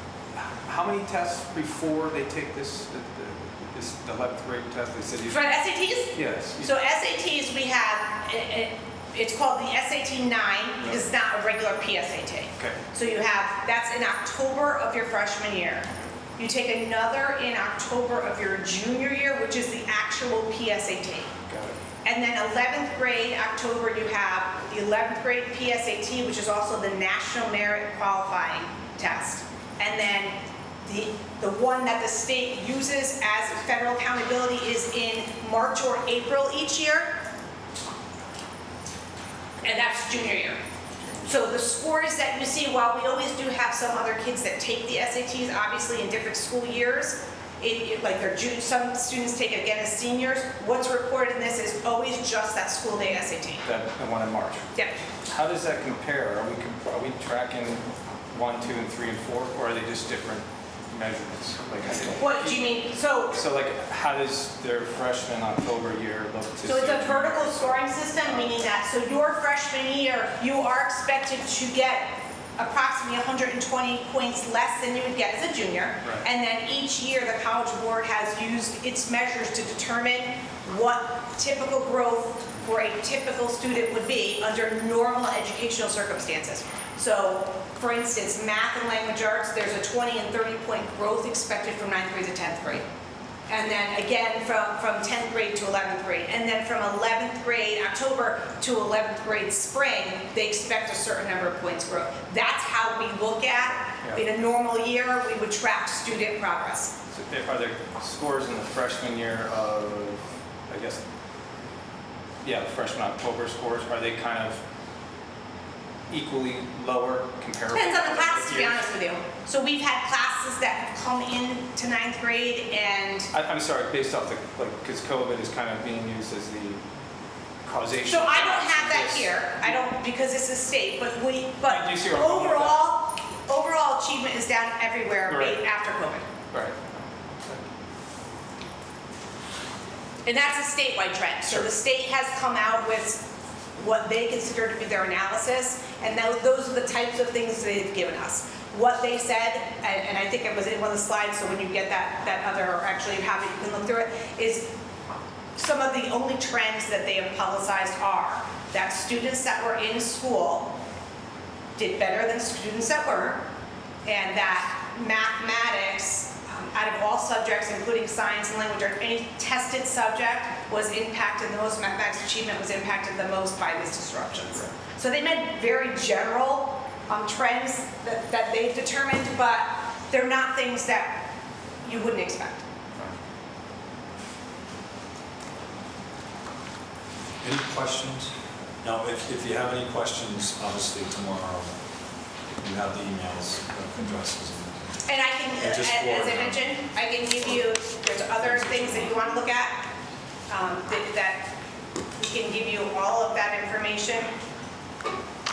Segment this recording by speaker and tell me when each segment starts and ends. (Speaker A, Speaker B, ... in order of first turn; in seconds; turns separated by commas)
Speaker A: 0.3-5.6, Speaker B: 5.3-21.3, Speaker A: 6.1-6.7, Speaker A: 10.8-11.1, Speaker A: 21.5-21.8, Speaker B: 22.0-37.2, Speaker B: 39.6-40.6, Speaker A: 41.0-41.3, Speaker B: 41.2-53.6, Speaker A: 53.6-54.7, Speaker B: 54.7-55.0, Speaker A: 55.3-62.8, Speaker B: 62.2-63.4, Speaker A: 63.3-68.7, Speaker B: 66.7-92.9, Speaker B: 93.5-106.9, Speaker A: 107.1-111.0, Speaker A: 112.4-114.6, Speaker A: 116.1-118.8, Speaker B: 117.7-123.3, Speaker A: 123.3-126.8, Speaker A: 127.6-129.8, Speaker B: 128.1-136.3, Speaker A: 131.7-132.9, Speaker A: 135.3-135.6, Speaker A: 136.5-137.6, Speaker B: 140.2-143.2, Speaker A: 141.5-141.7, Speaker B: 143.8-154.7, Speaker B: 155.6-160.8, Speaker B: 161.8-163.5, Speaker B: 164.1-181.3, Speaker B: 181.8-182.6, Speaker C: 187.4-191.8, Speaker C: 192.5-195.0, Speaker B: 195.1-199.9, Speaker C: 195.6-196.7, Speaker C: 198.4-199.2, Speaker B: 200.5-201.6, Speaker B: 202.2-204.3